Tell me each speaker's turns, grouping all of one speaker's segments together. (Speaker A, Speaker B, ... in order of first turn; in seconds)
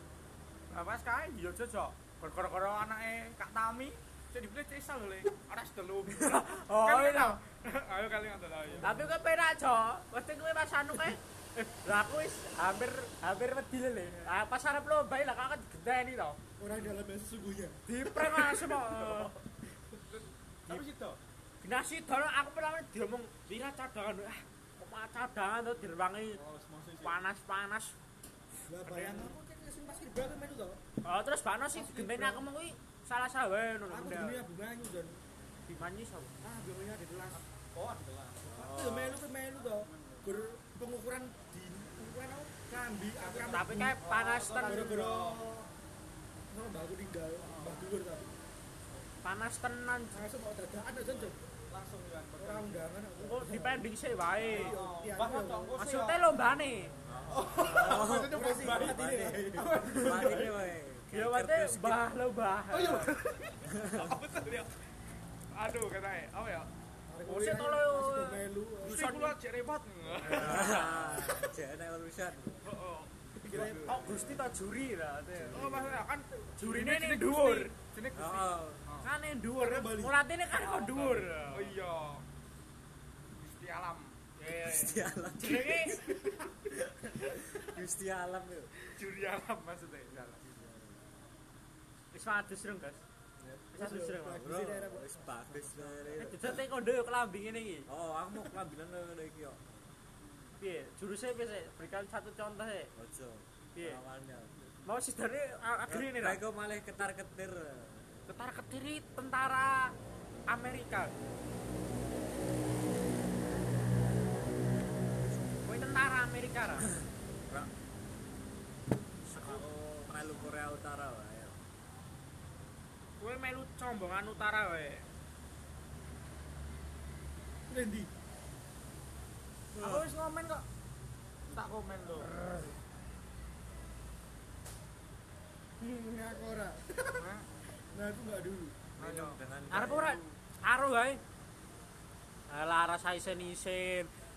Speaker A: 0.7-8.9, 18.2-19.4, 20.1-21.2, 26.3-27.2, 28.8-29.4, 37.3-38.5, 39.8-40.3, 43.2-45.5, 47.4-47.9, 51.7-52.9, 54.5-56.2, 57.3-60.5, 62.7-64.7, 65.5-66.7, 68.8-71.0, 72.7-73.1, 75.5-79.1, 80.7-82.2, 83.3-84.2, 88.9-90.4, 129.8-130.7, 131.5-132.3, 137.2-137.5, 139.0-139.4
Speaker B: 6.1-7.4, 8.8-16.4, 17.9-19.3, 21.6-26.4, 27.0-27.9, 31.1-34.5, 35.7-36.3, 43.5-45.0, 49.2-50.2, 53.2-54.8, 55.8-56.9, 61.1-63.1, 67.3-68.4, 70.3-70.8, 73.5-75.8, 76.6-77.7, 79.0-81.7, 84.4-86.1, 92.1-93.0, 93.7-94.5, 96.2-97.9, 100.6-102.9, 104.8-106.4, 108.3-110.0, 110.5-111.1, 115.6-116.9, 123.2-125.1, 139.7-141.2, 142.5-144.1
Speaker C: 16.6-17.8, 28.7-30.8, 31.8-32.5, 33.9-35.2, 36.4-37.4, 38.4-43.9, 44.6-45.7, 46.5-48.4, 50.1-51.4, 52.4-53.9, 54.4-55.8, 57.6-60.6, 62.8-63.1, 67.1-69.3, 73.4-74.1, 79.6-80.2, 93.4-96.3, 127.7-128.1, 129.8-130.0, 132.4-132.7, 135.8-137.3, 137.9-138.9
Speaker D: 38.5-39.2, 57.1-62.0, 63.6-64.2, 70.2-72.6, 73.5-74.4, 75.3-76.0, 78.2-78.8, 84.5-88.7, 90.5-90.9, 94.3-96.6, 97.9-99.8, 103.0-104.7, 105.9-108.1, 119.3-121.6, 139.0-140.2